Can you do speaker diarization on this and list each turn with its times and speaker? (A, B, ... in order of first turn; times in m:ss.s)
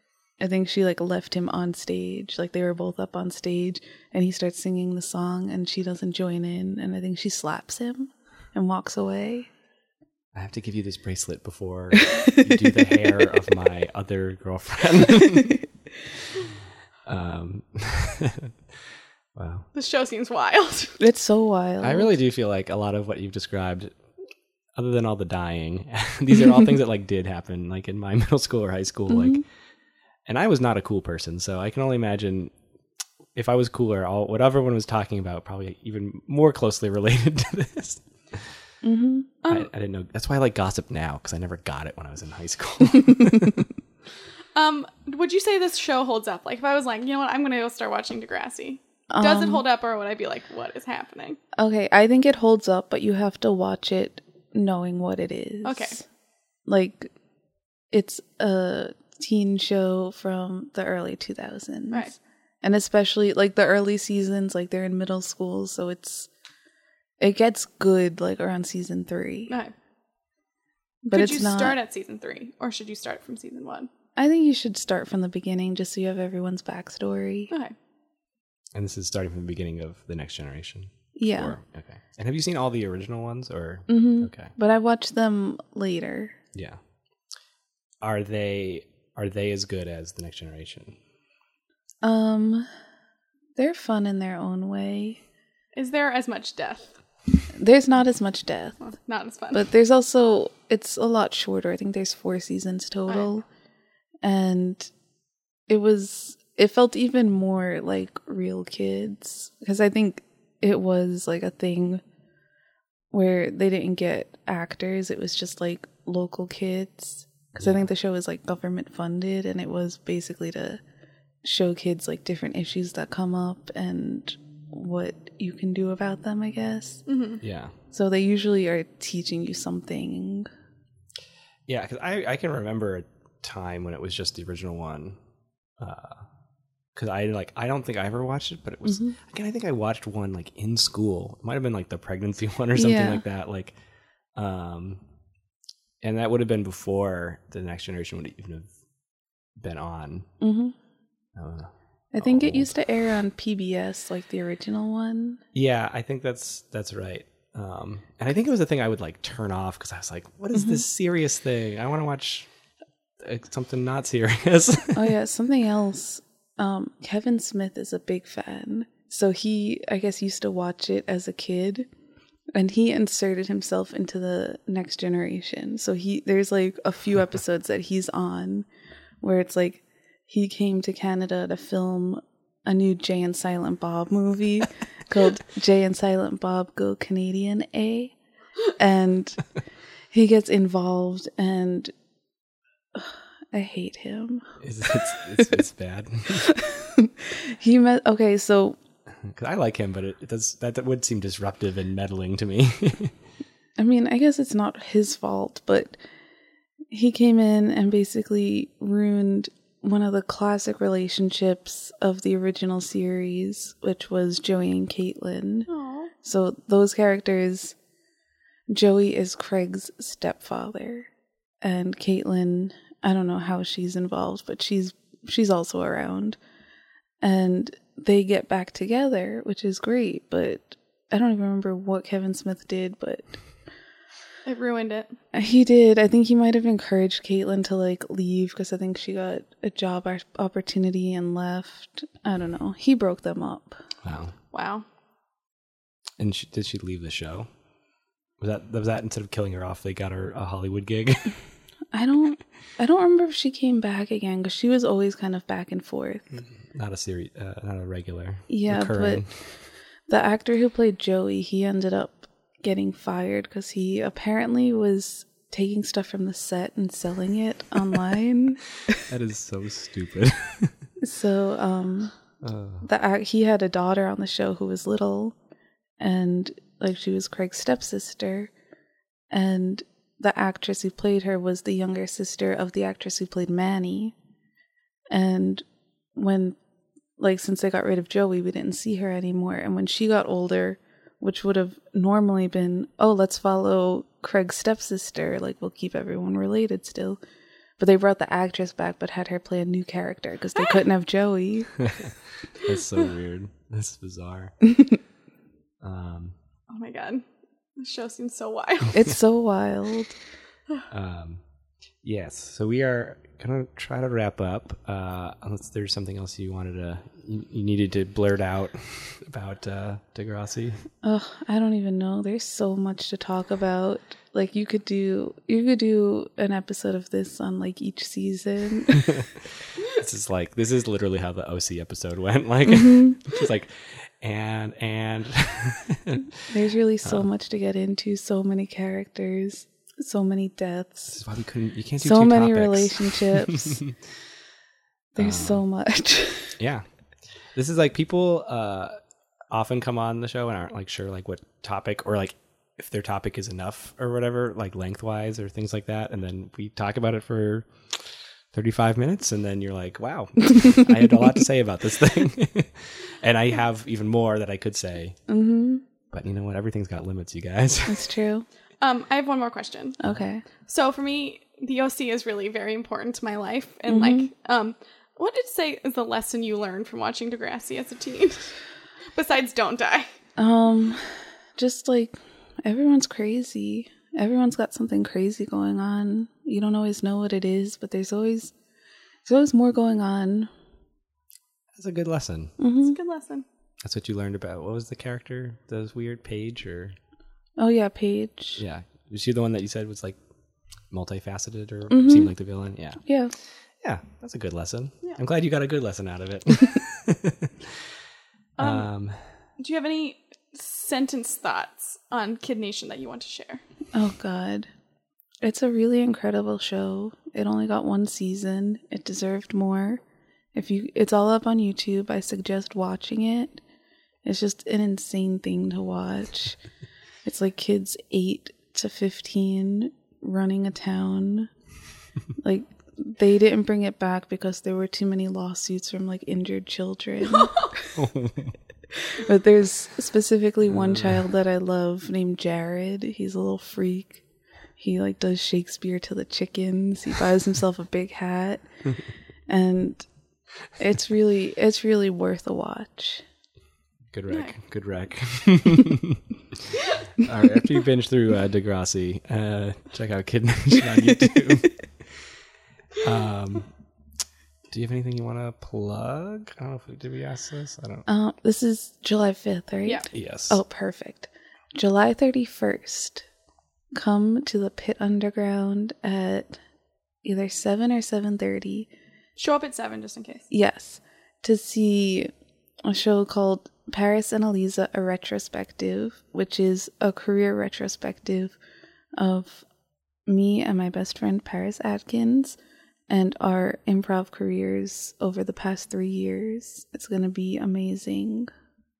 0:00.4-0:09.5 A
0:10.3-0:15.6 B
0:17.0-0:18.5 B
0:19.3-0:19.7 B
0:19.7-0:21.0 C
0:21.0-0:22.1 A
0:21.8-0:23.9 B
0:24.8-0:29.4 B
0:29.1-0:29.4 A
0:30.3-0:32.5 B
0:33.3-0:38.4 B
0:38.8-0:39.3 A
0:39.4-0:39.7 C
0:39.5-0:43.7 B
0:44.5-0:51.4 C
0:49.1-0:49.6 A
0:51.5-0:56.0 A
0:55.6-0:56.0 C
0:56.7-0:57.1 A
0:57.9-1:06.3 A
1:07.2-1:09.5 A
1:09.5-1:09.7 C
1:11.0-1:11.8 A
1:11.1-1:13.9 C
1:14.2-1:17.5 A
1:18.7-1:24.5 B
1:21.2-1:21.6 A
1:23.9-1:26.4 A
1:28.0-1:31.0 B
1:32.0-1:32.7 A
1:33.6-1:35.2 A
1:35.7-1:36.9 C
1:37.5-1:38.8 A
1:38.8-1:39.6 C
1:39.5-1:43.4 A
1:44.2-1:44.9 A
1:45.7-1:52.0 A
1:53.1-2:00.8 A
2:01.4-2:07.0 A
2:07.1-2:07.4 C
2:07.4-2:07.7 B
2:07.9-2:10.5 A
2:11.7-2:15.2 B
2:15.8-2:16.2 B
2:16.9-2:23.7 B
2:18.9-2:19.1 A
2:22.7-2:23.2 A
2:24.4-2:25.0 B
2:26.0-2:28.7 B
2:29.6-2:30.3 B
2:30.4-2:30.7 A
2:31.4-2:32.7 B
2:32.1-2:35.4 A
2:35.5-2:42.5 B
2:40.5-2:40.8 A
2:43.2-2:45.0 B
2:44.9-2:51.9 A
2:52.5-2:58.7 A
2:59.2-3:08.1 A
3:08.7-3:09.4 A
3:10.1-3:11.9 A
3:12.9-3:14.5 A
3:14.6-3:16.5 B
3:16.3-3:18.8 A
3:19.3-3:23.1 B
3:23.8-3:26.0 A
3:26.9-3:35.7 A
3:35.7-3:36.1 C
3:36.2-3:37.8 A
3:38.7-3:41.1 A
3:41.6-3:46.4 A
3:47.2-3:53.3 A
3:54.4-3:55.1 C
3:55.3-4:03.8 A
4:04.0-4:04.3 B
4:04.5-4:04.8 C
4:06.2-4:07.5 B
4:08.4-4:11.4 B
4:11.9-4:16.2 A
4:16.6-4:19.3 B
4:18.5-4:19.3 A
4:20.1-4:28.6 A
4:29.0-4:30.7 B
4:31.0-4:32.1 A
4:32.4-4:32.8 B
4:32.8-4:35.3 A
4:36.0-4:38.5 A
4:39.3-4:44.1 A
4:45.1-4:46.6 A
4:47.2-4:57.2 A
4:57.8-5:01.8 A
5:01.9-5:04.9 B
5:05.8-5:06.3 B
5:06.7-5:07.2 C
5:07.8-5:09.1 C
5:08.9-5:10.1 A
5:10.9-5:11.4 B
5:12.0-5:20.8 B
5:21.0-5:29.1 A
5:29.0-5:36.4 B
5:32.8-5:33.1 A
5:36.5-5:41.2 A
5:41.1-5:44.0 B
5:42.0-5:43.8 A
5:45.1-5:46.5 A
5:45.2-5:45.6 B
5:46.6-5:46.8 B
5:47.5-5:49.0 B
5:49.5-5:57.7 B
5:58.5-6:05.2 B
6:05.3-6:05.8 A
6:06.1-6:08.1 B
6:07.8-6:08.4 A
6:08.8-6:10.0 C
6:10.0-6:10.4 A
6:10.6-6:18.6 C
6:13.9-6:14.3 A
6:19.1-6:20.1 C
6:20.4-6:28.5 A
6:29.2-6:30.5 A
6:31.8-6:32.5 B
6:32.6-6:33.0 A
6:32.8-6:33.4 C
6:33.8-6:37.0 B
6:37.6-6:38.6 A
6:38.6-6:40.2 B
6:40.9-6:43.0 B
6:41.9-6:42.3 A
6:43.0-6:43.3 A
6:43.8-6:47.5 B
6:48.6-6:48.9 C
6:48.6-6:49.2 B
6:49.6-6:53.6 C
6:53.9-6:54.7 A
6:55.4-7:00.0 A
7:00.5-7:03.6 A
7:04.2-7:06.6 A
7:07.2-7:11.5 A
7:12.4-7:17.7 A
7:17.9-7:18.5 B
7:18.9-7:24.2 A
7:20.8-7:21.2 B
7:24.8-7:28.6 A
7:29.5-7:30.0 A
7:30.8-7:33.2 A
7:34.1-7:36.2 B
7:37.2-7:42.1 B
7:43.0-7:43.7 B
7:44.7-7:48.0 B
7:48.1-7:53.3 A
7:50.1-7:50.6 B
7:53.9-7:56.6 A
7:57.2-7:58.9 A
7:59.4-8:00.5 C
8:00.5-8:02.3 A
8:02.8-8:08.6 A
8:09.2-8:09.6 A
8:10.2-8:12.6 A
8:13.1-8:18.5 A